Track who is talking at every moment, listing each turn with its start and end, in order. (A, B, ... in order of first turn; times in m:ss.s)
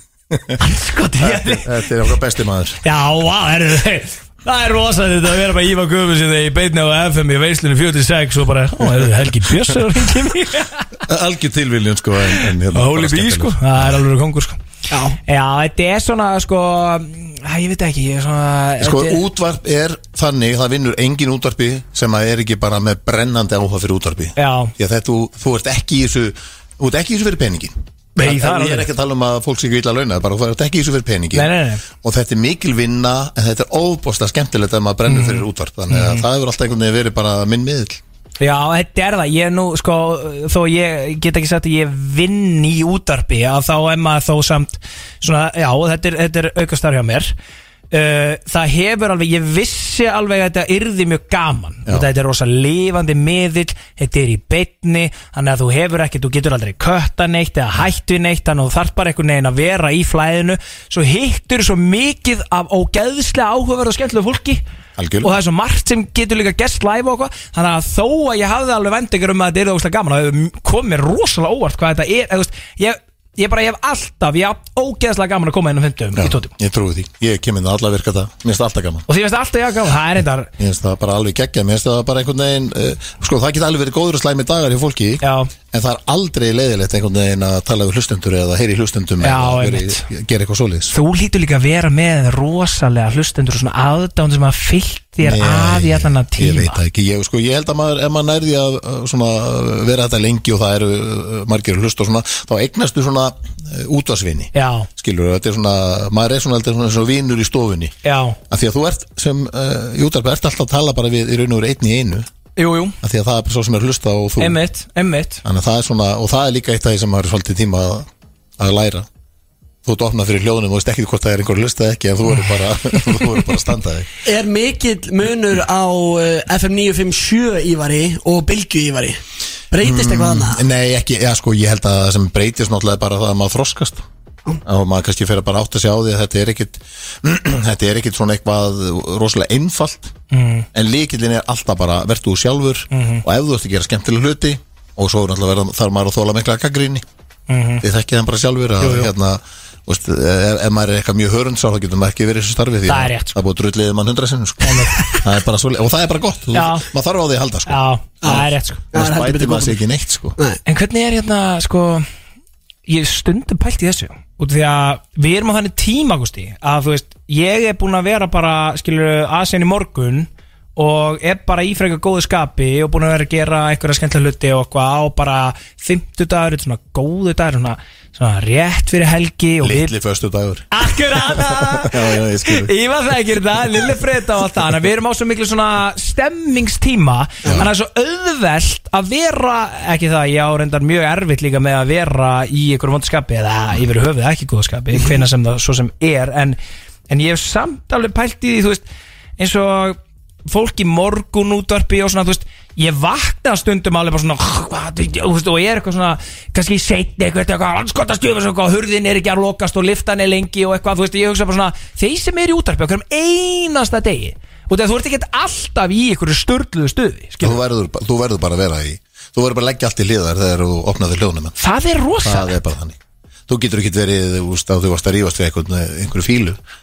0:00.3-0:00.7 A
0:00.6-0:01.8 B
0:01.2-0:02.8 A
0:02.8-0:10.9 B
0:11.1-0:14.0 A
0:12.4-0:14.6 B
0:14.9-0:15.2 C
0:15.3-0:19.2 B
0:18.8-0:38.0 A
0:24.4-0:24.7 B
0:28.2-0:28.9 B
0:31.3-0:31.8 B
0:35.1-0:36.2 B
0:38.4-0:47.4 B
0:47.9-1:04.6 B
1:05.0-1:05.3 A
1:05.2-1:16.5 B
1:16.2-1:19.0 A
1:19.1-1:20.5 B
1:20.6-1:30.9 A
1:25.2-1:25.5 B
1:29.2-1:30.1 B
1:30.9-1:36.8 B
1:35.2-1:47.9 A
1:44.5-1:44.9 B
1:48.0-1:48.4 B
1:48.5-1:52.3 A
1:52.6-1:53.0 B
1:53.0-1:54.6 A
1:54.4-1:55.4 B
1:55.4-1:58.1 A
1:58.6-1:59.1 A
1:59.8-2:04.1 A
2:04.2-2:10.6 C
2:09.8-2:14.0 A
2:14.6-2:20.1 A
2:20.3-2:20.7 B
2:20.7-2:27.0 A
2:22.9-2:23.2 B
2:27.5-2:27.8 B
2:27.8-2:40.4 A
2:28.8-2:29.1 B
2:32.9-2:33.4 B
2:34.6-2:35.2 B
2:36.5-2:36.9 B
2:37.7-2:38.9 B
2:38.2-2:39.8 C
2:40.7-2:42.1 B
2:42.9-2:59.9 B
2:59.6-3:02.7 A
3:00.7-3:16.6 B
3:17.1-3:18.8 B
3:19.4-3:37.6 B
3:37.4-3:41.6 A
3:41.6-3:42.6 B
3:42.2-3:43.0 A
3:43.5-3:46.6 A